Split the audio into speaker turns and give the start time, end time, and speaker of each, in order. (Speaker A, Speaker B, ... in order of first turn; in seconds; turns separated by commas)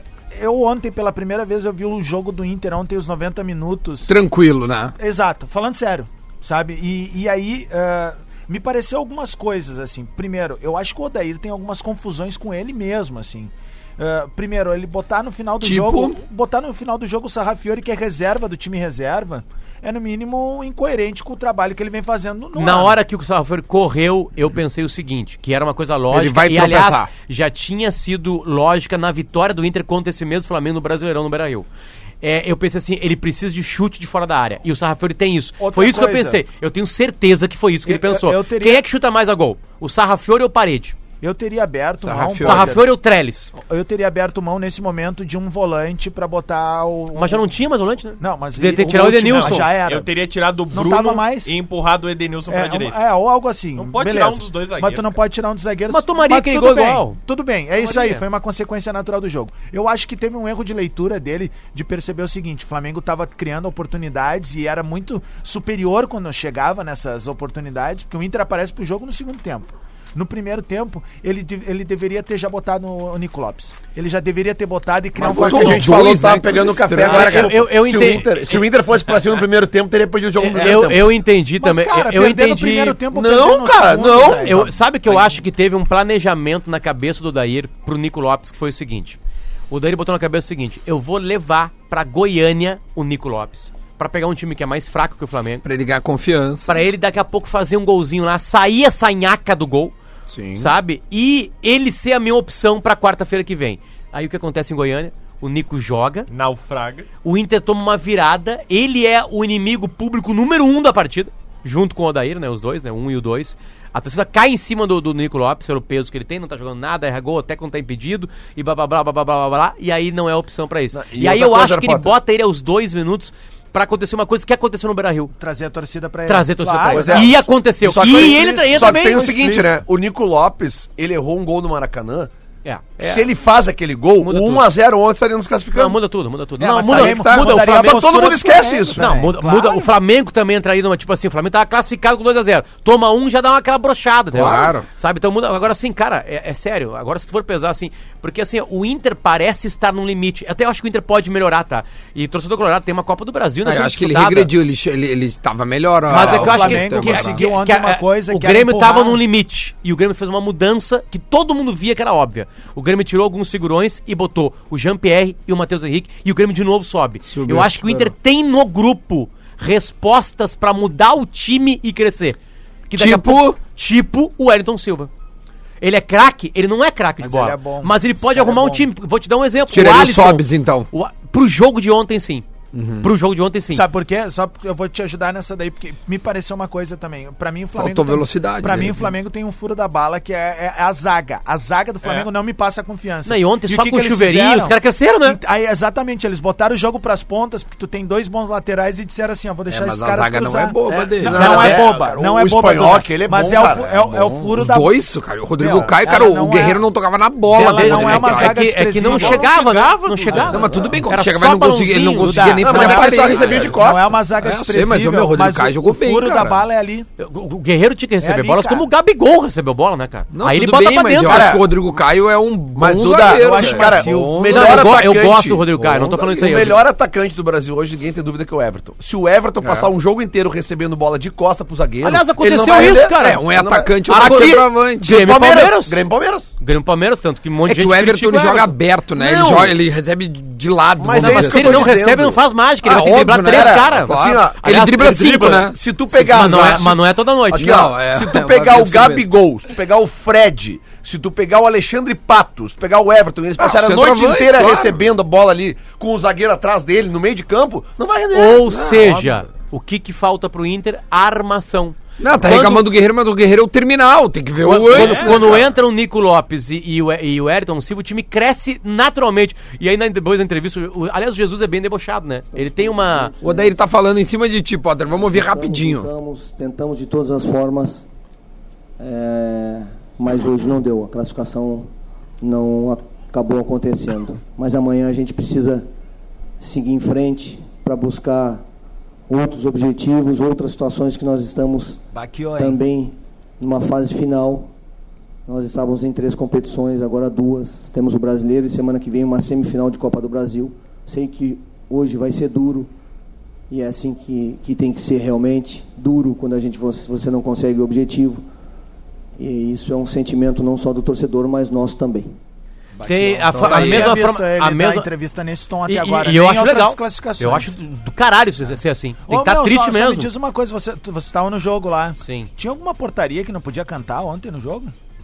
Speaker A: 0.3-4.1, Speaker B: 4.1-4.9, Speaker A: 5.0-23.0, Speaker B: 15.6-16.2, Speaker C: 22.6-31.7, Speaker B: 26.1-27.1, Speaker C: 32.2-41.0, Speaker A: 35.6-36.4, Speaker A: 37.9-38.8, Speaker A: 41.2-42.9, Speaker C: 42.0-43.5, Speaker B: 42.1-42.7, Speaker A: 43.6-47.5, Speaker C: 47.1-49.7, Speaker A: 48.2-50.1, Speaker D: 49.4-53.0, Speaker A: 50.7-51.5, Speaker A: 52.5-76.3, Speaker D: 53.8-55.2, Speaker C: 55.9-57.2, Speaker C: 57.8-58.2, Speaker E: 75.2-81.2, Speaker B: 75.2-78.0, Speaker C: 77.0-78.7, Speaker C: 80.4-83.0, Speaker A: 81.6-84.7, Speaker E: 83.1-85.2, Speaker C: 84.2-89.2, Speaker C: 89.7-95.7, Speaker B: 95.6-96.8, Speaker C: 96.7-100.0, Speaker B: 100.3-100.7, Speaker C: 100.5-106.3, Speaker D: 106.3-107.1, Speaker C: 107.2-125.3, Speaker E: 120.9-122.1, Speaker A: 125.4-127.4, Speaker C: 126.3-129.8, Speaker E: 126.9-132.3, Speaker A: 127.9-129.2, Speaker C: 132.7-133.3, Speaker E: 133.0-136.0, Speaker C: 134.2-134.7, Speaker C: 135.7-138.2, Speaker A: 136.6-139.9, Speaker E: 136.8-139.2, Speaker C: 138.9-154.5, Speaker B: 144.3-144.9, Speaker E: 144.4-144.7, Speaker B: 153.7-157.5, Speaker C: 156.1-172.4, Speaker A: 156.1-159.2, Speaker B: 167.3-168.1, Speaker C: 172.9-175.1, Speaker B: 172.9-173.6, Speaker C: 175.8-182.5, Speaker A: 177.2-178.9, Speaker B: 179.7-180.9, Speaker B: 182.7-183.1, Speaker C: 183.0-183.8, Speaker A: 183.7-205.0, Speaker B: 187.8-189.1, Speaker D: 192.0-192.3, Speaker C: 193.3-195.4, Speaker B: 199.7-201.8, Speaker E: 200.9-204.2, Speaker C: 201.3-201.9, Speaker B: 204.2-208.6, Speaker A: 205.6-206.8, Speaker A: 207.5-210.8, Speaker C: 207.5-213.8, Speaker D: 209.1-210.5, Speaker B: 210.4-213.8, Speaker A: 212.2-217.1, Speaker E: 212.6-214.2, Speaker B: 214.3-216.7, Speaker C: 217.2-221.6, Speaker A: 218.2-218.9, Speaker B: 220.3-225.0, Speaker E: 221.2-221.7, Speaker E: 222.8-236.5, Speaker A: 223.2-224.5, Speaker C: 224.5-226.8, Speaker B: 225.8-226.1, Speaker B: 229.6-229.9, Speaker C: 232.0-233.5, Speaker B: 232.9-235.3, Speaker C: 234.1-236.0, Speaker C: 236.6-238.7, Speaker B: 237.7-241.9, Speaker E: 239.2-239.8, Speaker E: 241.0-242.4, Speaker C: 241.2-247.8, Speaker B: 242.8-246.9, Speaker E: 243.4-258.7, Speaker B: 247.6-249.3, Speaker B: 253.6-255.0, Speaker C: 258.3-262.9, Speaker B: 258.7-259.4, Speaker B: 262.2-265.6, Speaker C: 264.6-273.3, Speaker D: 265.0-265.3, Speaker E: 265.0-265.6, Speaker F: 272.5-273.8, Speaker B: 273.4-276.1, Speaker F: 275.1-278.1, Speaker F: 279.0-281.9, Speaker F: 282.4-285.9, Speaker F: 286.6-288.6, Speaker F: 289.3-292.0, Speaker A: 292.1-292.8, Speaker F: 292.6-294.7, Speaker F: 295.5-302.9, Speaker F: 303.7-308.4, Speaker F: 309.4-312.3, Speaker A: 313.0-317.8, Speaker C: 313.1-315.1, Speaker B: 313.5-314.2, Speaker C: 315.9-320.3, Speaker A: 319.3-324.9, Speaker C: 322.2-322.5